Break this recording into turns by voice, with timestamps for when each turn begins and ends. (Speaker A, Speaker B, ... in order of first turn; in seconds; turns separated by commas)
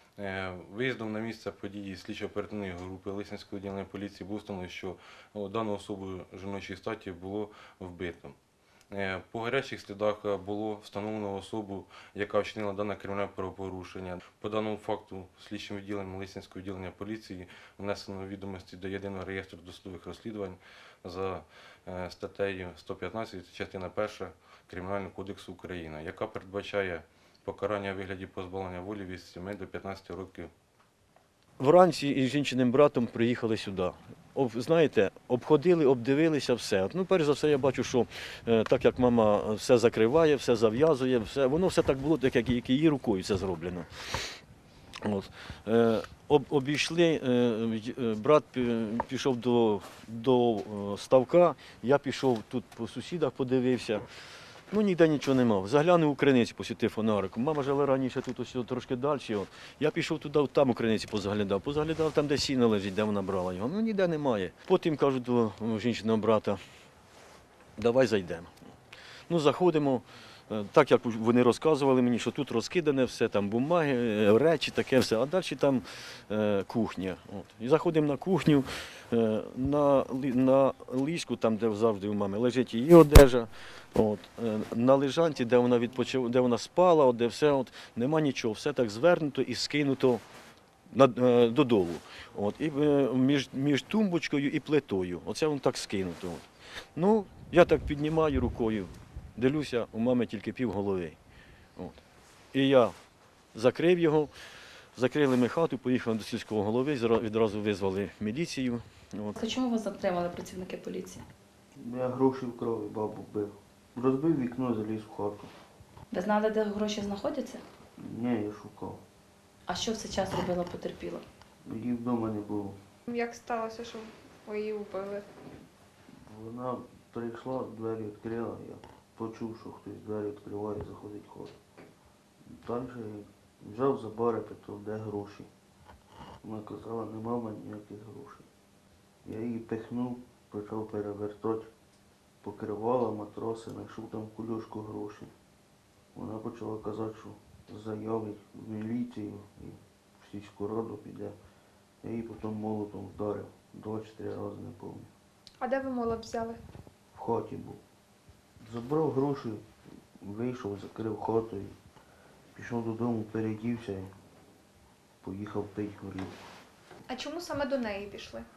Speaker A: 0.2-8.4, Speaker A: 8.9-30.5, Speaker B: 31.6-44.4, Speaker B: 45.0-54.1, Speaker B: 54.7-66.6, Speaker B: 67.8-68.5, Speaker B: 69.3-90.2, Speaker B: 90.9-101.2, Speaker B: 102.5-103.0, Speaker B: 103.5-104.3, Speaker B: 105.0-109.4, Speaker C: 109.4-111.2, Speaker D: 111.8-115.5, Speaker C: 116.1-117.6, Speaker D: 118.0-119.0, Speaker C: 119.7-121.2, Speaker D: 121.7-122.8, Speaker E: 123.1-125.2, Speaker D: 126.2-131.6, Speaker D: 132.4-135.5, Speaker D: 136.4-138.5, Speaker D: 139.2-141.7, Speaker D: 142.4-145.3, Speaker D: 146.1-151.3, Speaker D: 152.0-155.1, Speaker E: 155.6-156.6, Speaker D: 157.2-157.8, Speaker D: 158.6-159.7, Speaker D: 160.2-161.8, Speaker D: 162.6-164.1, Speaker D: 165.2-166.4, Speaker E: 167.1-168.5